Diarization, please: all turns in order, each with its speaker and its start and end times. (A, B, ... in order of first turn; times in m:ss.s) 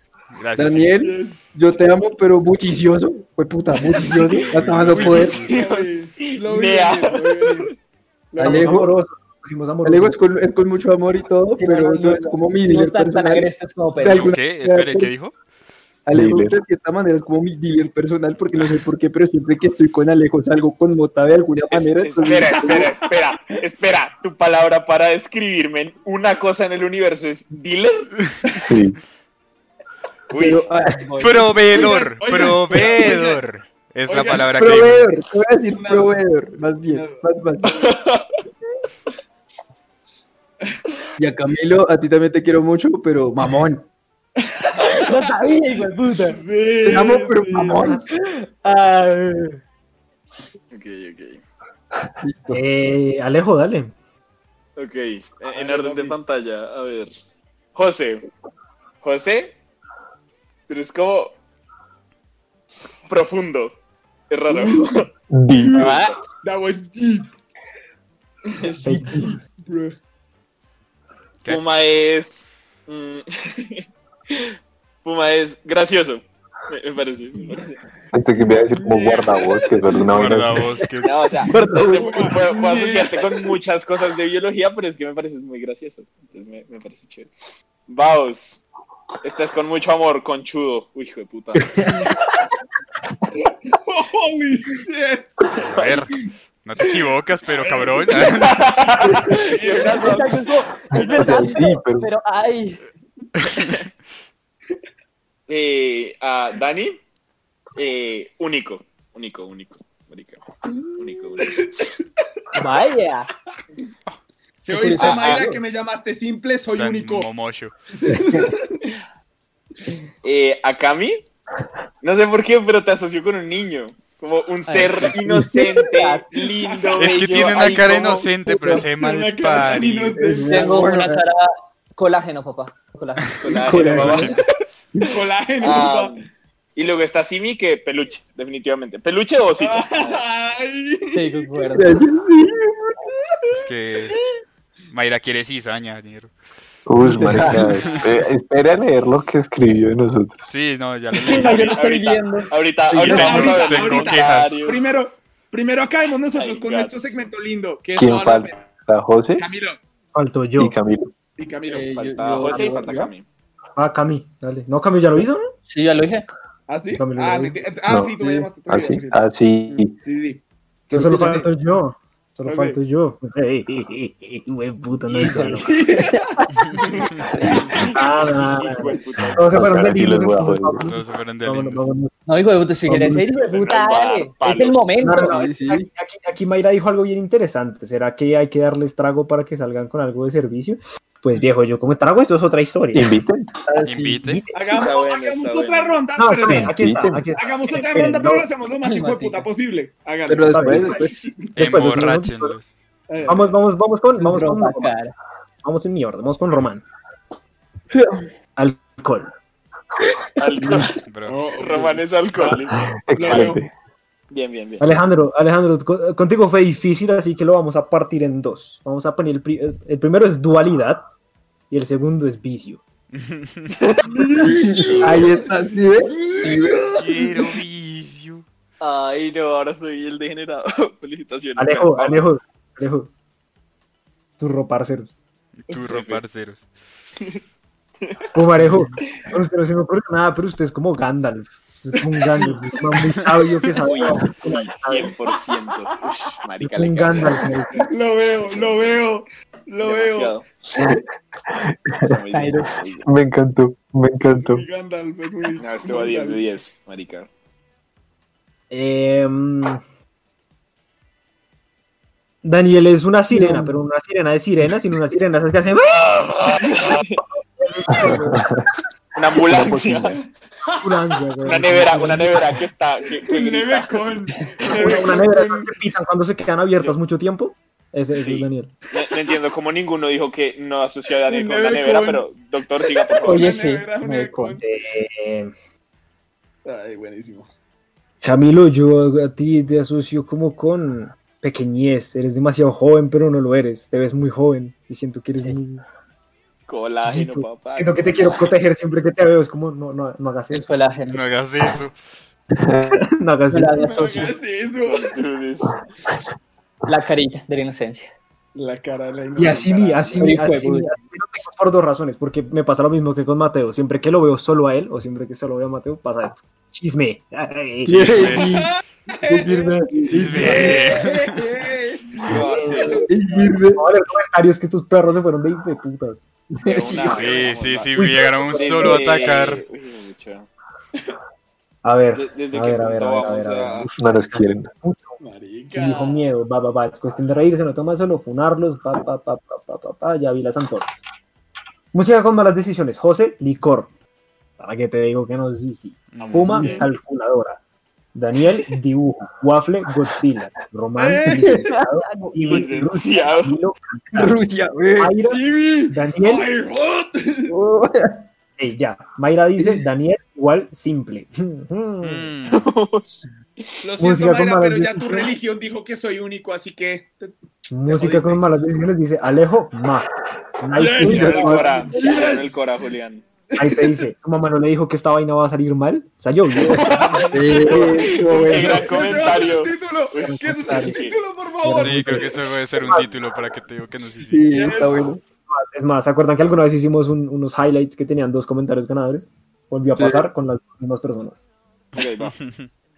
0:00.3-0:01.0 A
0:00.6-0:05.5 B
0:01.0-0:01.4 C
0:04.4-0:05.5 A
0:04.9-0:07.7 C
0:04.9-0:07.8 D
0:08.3-0:08.8 C
0:08.4-0:08.9 B
0:08.4-0:10.2 E
0:09.8-0:15.1 B
0:11.6-0:14.3 F
0:14.1-0:15.3 A
0:16.1-0:22.9 B
0:16.1-0:16.6 G
0:21.7-0:28.1 D
0:22.7-0:23.6 C
0:28.6-0:29.0 G
0:30.3-0:30.6 D
0:30.3-0:31.0 B
0:31.0-0:31.5 F
0:31.2-0:35.1 A
0:31.7-0:33.4 C
0:34.1-0:34.6 C
0:34.5-0:38.0 B
0:35.7-0:36.2 C
0:36.9-0:37.2 C
0:37.6-0:38.3 D
0:41.2-0:43.9 B
0:44.4-0:45.3 C
0:45.0-0:46.4 F
0:46.3-0:48.0 C
0:46.8-0:48.0 B
0:48.1-0:49.6 F
0:50.7-0:51.4 D
0:52.2-0:52.6 B
0:52.5-0:53.9 E
0:54.8-0:57.1 D
0:55.5-0:56.2 C
0:57.8-0:58.3 D
0:59.0-0:59.6 D
1:00.7-1:01.4 D
1:03.1-1:03.8 D
1:04.3-1:05.1 D
1:04.5-1:04.8 C
1:05.3-1:06.0 G
1:05.6-1:05.9 C
1:05.7-1:06.2 F
1:05.8-1:06.1 D
1:06.4-1:07.3 C
1:08.5-1:10.0 C
1:08.8-1:09.4 E
1:11.5-1:17.8 D
1:18.1-1:20.7 G
1:18.4-1:20.0 C
1:20.1-1:21.2 A
1:21.0-1:27.3 D
1:21.4-1:22.4 B
1:21.9-1:23.5 C
1:27.9-1:28.6 D
1:29.2-1:31.8 D
1:31.6-1:32.1 B
1:33.5-1:35.4 C
1:35.6-1:38.7 A
1:35.7-1:36.0 D
1:37.6-1:38.5 C
1:38.1-1:40.6 D
1:39.0-1:39.4 B
1:39.1-1:40.4 C
1:39.7-1:42.8 F
1:41.0-1:42.1 G
1:41.1-1:41.6 B
1:43.4-1:43.7 A
1:45.5-1:47.0 D
1:47.8-1:50.4 D
1:51.0-1:51.6 D
1:51.4-1:51.9 C
1:52.6-1:53.3 F
1:54.6-1:57.3 C
1:54.7-1:55.6 F
1:55.0-1:55.4 D
1:56.8-1:57.7 A
1:57.9-1:58.9 C
1:58.1-1:58.4 B
2:00.2-2:01.2 D
2:02.0-2:08.3 D
2:04.7-2:06.3 F
2:06.4-2:07.6 C
2:07.0-2:10.2 A
2:08.6-2:10.6 C
2:10.2-2:11.2 B
2:10.4-2:14.4 F
2:13.4-2:14.4 D
2:13.7-2:14.3 B
2:13.9-2:14.4 A
2:15.0-2:16.2 C
2:15.6-2:20.2 D
2:19.6-2:21.7 C
2:21.1-2:22.0 F
2:21.7-2:23.0 B
2:23.3-2:23.6 C
2:23.5-2:24.2 A
2:24.9-2:26.3 A
2:26.9-2:30.4 G
2:27.0-2:27.7 B
2:27.8-2:28.1 C
2:30.5-2:31.8 A
2:31.2-2:32.5 F
2:31.3-2:34.8 D
2:33.0-2:34.7 A
2:33.0-2:38.6 C
2:33.2-2:33.5 F
2:36.4-2:37.3 D
2:38.0-2:39.5 G
2:39.4-2:39.8 C
2:40.1-2:40.8 E
2:40.6-2:41.1 G
2:41.4-2:42.0 C
2:41.7-2:43.1 F
2:41.8-2:43.2 D
2:43.8-2:45.5 E
2:45.7-2:46.3 F
2:46.7-2:50.4 C
2:46.9-2:47.6 E
2:47.9-2:50.0 G
2:50.9-2:56.0 E
2:50.9-2:51.5 C
2:52.5-2:52.8 C
2:55.4-2:56.4 C
2:56.1-2:56.4 F
2:56.8-2:59.7 D
2:57.4-2:57.9 C
2:57.8-3:02.2 E
2:59.4-3:00.9 G
3:00.9-3:01.9 A
3:02.3-3:05.5 F
3:02.9-3:03.2 E
3:03.3-3:04.8 D
3:05.0-3:13.2 E
3:05.1-3:05.9 B
3:12.9-3:13.5 G
3:13.7-3:14.2 B
3:13.8-3:14.4 A
3:14.2-3:14.9 E
3:14.5-3:16.8 C
3:14.8-3:16.0 D
3:16.2-3:18.5 E
3:16.5-3:17.3 G
3:17.4-3:21.3 C
3:18.8-3:19.5 F
3:20.3-3:21.3 B
3:20.5-3:22.6 E
3:21.6-3:22.7 A
3:23.1-3:23.5 C
3:23.3-3:24.9 E
3:24.2-3:25.1 F
3:25.6-3:26.8 E
3:28.6-3:29.3 E
3:30.4-3:31.0 D
3:31.1-3:31.5 A
3:31.3-3:32.6 C
3:31.6-3:33.6 D
3:32.5-3:33.7 G
3:33.1-3:33.6 C
3:34.3-3:34.9 D
3:34.8-3:41.1 E
3:41.7-3:42.8 E
3:43.1-3:43.7 A
3:44.1-3:45.6 C
3:44.4-3:47.0 B
3:46.1-3:47.0 C
3:47.0-3:48.4 A
3:48.8-3:52.3 D
3:51.6-3:53.1 E
3:54.4-3:55.1 E
3:55.6-3:56.7 A
3:55.7-3:56.2 D
3:58.0-3:58.3 D
3:58.3-4:05.1 E
4:03.8-4:07.5 D
4:06.6-4:07.8 E
4:07.8-4:10.4 C
4:08.5-4:09.0 D
4:09.8-4:10.5 D
4:10.8-4:11.0 G
4:11.6-4:12.1 G
4:12.0-4:13.1 D
4:12.3-4:12.8 F
4:13.0-4:14.7 G
4:14.3-4:16.4 C
4:15.6-4:17.3 D
4:18.7-4:19.8 E
4:22.4-4:26.7 E
4:23.3-4:23.8 B
4:26.6-4:27.2 D
4:27.6-4:28.4 E
4:28.1-4:28.4 G
4:29.2-4:30.2 D
4:29.5-4:30.1 G
4:30.8-4:32.6 E
4:31.4-4:34.1 D
4:33.2-4:35.7 C
4:34.7-4:38.7 E
4:38.2-4:43.5 D
4:41.3-4:42.3 C
4:42.8-4:44.6 C
4:43.2-4:44.6 F
4:44.6-4:45.5 E
4:46.6-4:47.5 C
4:48.2-4:55.8 E
4:56.7-4:58.5 D
4:57.0-5:00.7 E
5:00.5-5:01.2 F
5:01.1-5:02.0 A
5:02.6-5:03.0 G
5:02.9-5:04.3 E
5:03.5-5:04.4 F
5:03.7-5:05.2 C
5:04.8-5:05.8 D
5:06.9-5:08.1 F
5:08.6-5:10.4 C
5:09.4-5:18.4 E
5:10.2-5:11.0 F
5:17.9-5:18.7 B
5:18.0-5:18.5 A
5:18.4-5:23.0 C
5:19.3-5:21.0 B
5:20.1-5:21.4 A
5:20.2-5:20.7 E
5:22.1-5:23.3 D
5:22.3-5:23.1 E
5:23.1-5:23.8 B
5:23.7-5:26.2 E
5:26.6-5:27.2 B
5:26.6-5:30.5 D
5:27.1-5:29.6 A
5:28.0-5:29.0 E
5:31.8-5:35.2 E
5:32.1-5:33.9 D
5:33.9-5:34.7 G
5:35.2-5:36.3 C
5:35.7-5:41.0 E
5:41.9-5:43.9 E
5:44.6-5:47.6 E
5:46.1-5:46.7 A
5:46.2-5:46.9 D
5:48.1-5:54.4 E
5:51.0-5:51.7 C
5:51.5-5:52.7 B
5:52.4-5:53.6 D
5:54.2-5:55.2 B
5:55.0-5:56.5 E
5:55.2-5:57.6 C
5:57.5-5:58.2 B
5:58.6-6:02.3 E
6:02.0-6:02.6 A
6:02.5-6:03.2 D
6:03.8-6:07.3 C
6:04.0-6:05.3 E
6:07.7-6:11.8 E
6:07.9-6:08.4 C
6:10.7-6:12.7 C
6:11.0-6:11.7 B
6:11.1-6:13.2 D
6:13.5-6:14.0 C
6:13.6-6:16.9 E
6:16.6-6:21.2 D
6:17.3-6:19.1 B
6:17.4-6:22.3 C
6:20.2-6:21.0 E
6:21.6-6:23.1 E
6:21.7-6:24.5 A
6:24.3-6:25.2 B
6:24.5-6:25.1 C
6:25.5-6:31.4 E
6:30.0-6:30.3 B
6:31.9-6:32.4 D
6:32.2-6:32.7 A